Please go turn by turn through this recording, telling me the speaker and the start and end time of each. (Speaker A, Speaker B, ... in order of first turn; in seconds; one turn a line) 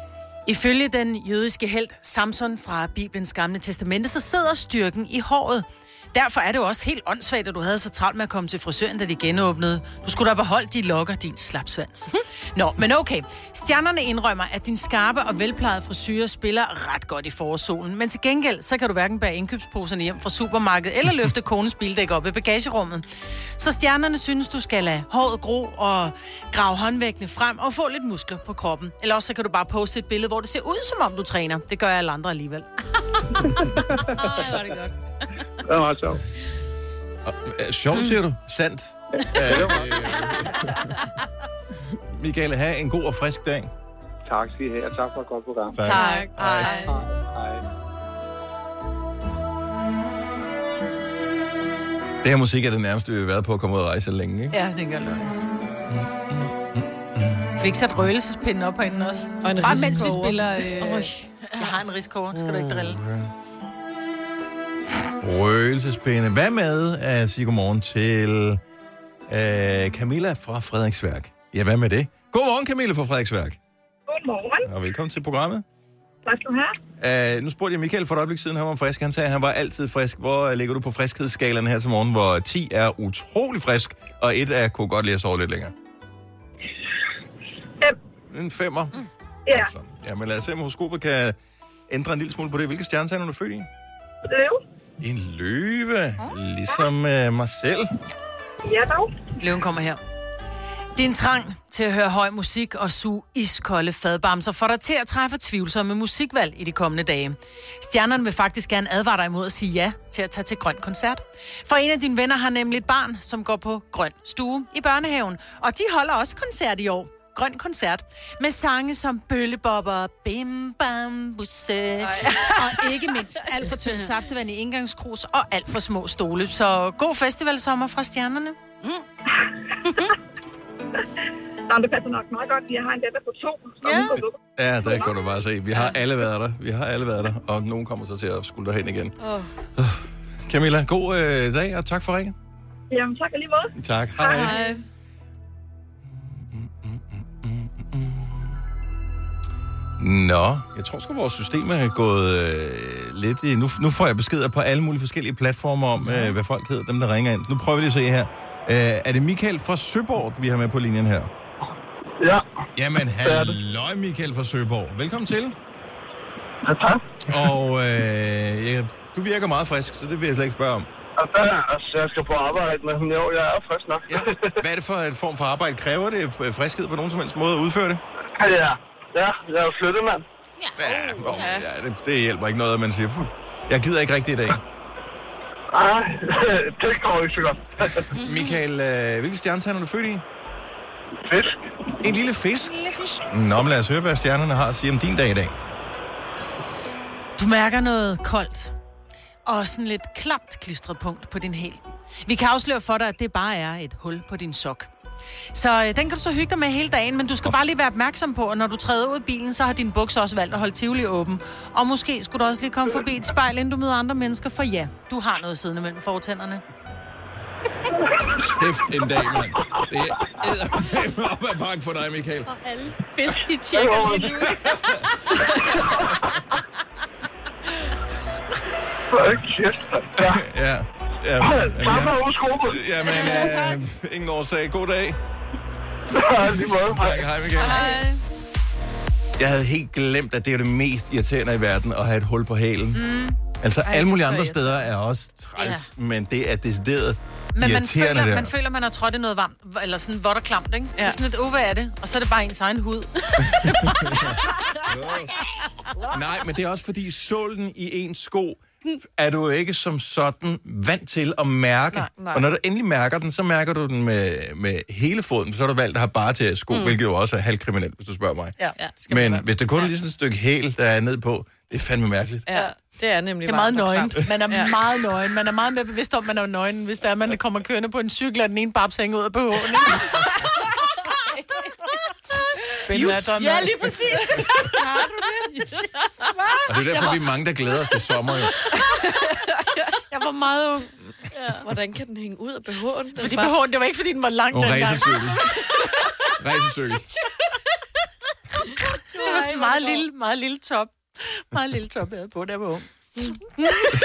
Speaker A: 0.5-32.7
Speaker B: 33.6-34.5
Speaker C: 34.1-34.9
Speaker B: 35.7-36.2
Speaker D: 37.2-40.9
Speaker C: 37.9-38.2
Speaker B: 39.2-40.3
Speaker D: 41.9-43.7
Speaker B: 44.3-45.8
Speaker D: 45.7-46.8
Speaker A: 45.8-46.9
Speaker E: 45.9-47.0
Speaker B: 46.9-47.6
Speaker D: 52.2-54.5
Speaker A: 54.5-55.3
Speaker D: 55.9-57.5
Speaker A: 57.6-63.0
Speaker E: 59.4-61.1
Speaker C: 60.8-61.3
Speaker D: 62.4-63.3
Speaker D: 65.2-68.6
Speaker D: 69.3-73.6
Speaker F: 74.1-74.7
Speaker D: 74.7-75.7
Speaker F: 76.3-76.8
Speaker D: 77.0-85.7
Speaker D: 88.3-89.0
Speaker D: 89.5-91.4
Speaker D: 91.9-93.7
Speaker F: 94.3-94.6
Speaker D: 95.0-97.9
Speaker F: 98.7-99.3
Speaker A: 99.4-100.0
Speaker A: 101.0-128.6
Speaker E: 122.0-122.5
Speaker F: 131.7-135.3
Speaker C: 133.8-134.1
Speaker D: 134.6-139.1
Speaker D: 139.8-142.4
Speaker F: 142.9-144.5
Speaker D: 143.8-144.6
Speaker E: 144.2-144.8
Speaker D: 146.0-148.6
Speaker D: 150.0-161.3
Speaker D: 162.7-165.6
Speaker G: 163.2-163.6
Speaker G: 166.7-167.0
Speaker D: 167.3-170.9
Speaker G: 171.2-174.5
Speaker D: 174.1-178.0
Speaker G: 178.4-180.2
Speaker C: 180.6-181.6
Speaker D: 180.8-184.6
Speaker E: 181.3-181.7
Speaker G: 185.7-188.1
Speaker D: 187.9-190.2
Speaker C: 188.2-188.6
Speaker G: 191.2-191.7
Speaker D: 192.0-195.6
Speaker A: 197.4-198.7
Speaker A: 199.5-204.9
Speaker A: 205.5-216.6
Speaker D: 218.3-222.5
Speaker C: 222.5-226.1
Speaker G: 223.7-224.4
Speaker D: 224.2-224.8
Speaker G: 225.4-226.1
Speaker G: 229.1-230.4
Speaker D: 230.2-235.2
Speaker G: 231.4-232.8
Speaker G: 236.1-237.1
Speaker D: 236.7-237.9
Speaker E: 237.6-238.1
Speaker A: 237.6-238.0
Speaker D: 239.4-248.5
Speaker A: 242.9-243.4
Speaker E: 243.9-244.7
Speaker A: 247.6-254.3
Speaker D: 253.9-254.3
Speaker D: 254.9-255.4
Speaker D: 256.0-268.6
Speaker E: 262.2-262.5
Speaker C: 266.7-267.0
Speaker A: 268.6-269.4
Speaker D: 269.1-272.5
Speaker E: 272.5-274.7
Speaker A: 273.4-280.4
Speaker A: 282.9-285.3
Speaker C: 282.9-284.9
Speaker D: 286.7-288.5
Speaker C: 286.8-287.1
Speaker A: 288.8-289.2
Speaker A: 290.1-290.9
Speaker C: 291.3-291.6
Speaker E: 291.6-293.6
Speaker A: 293.2-295.3
Speaker D: 294.5-295.6
Speaker D: 296.4-297.1
Speaker A: 298.7-302.9
Speaker C: 299.1-300.0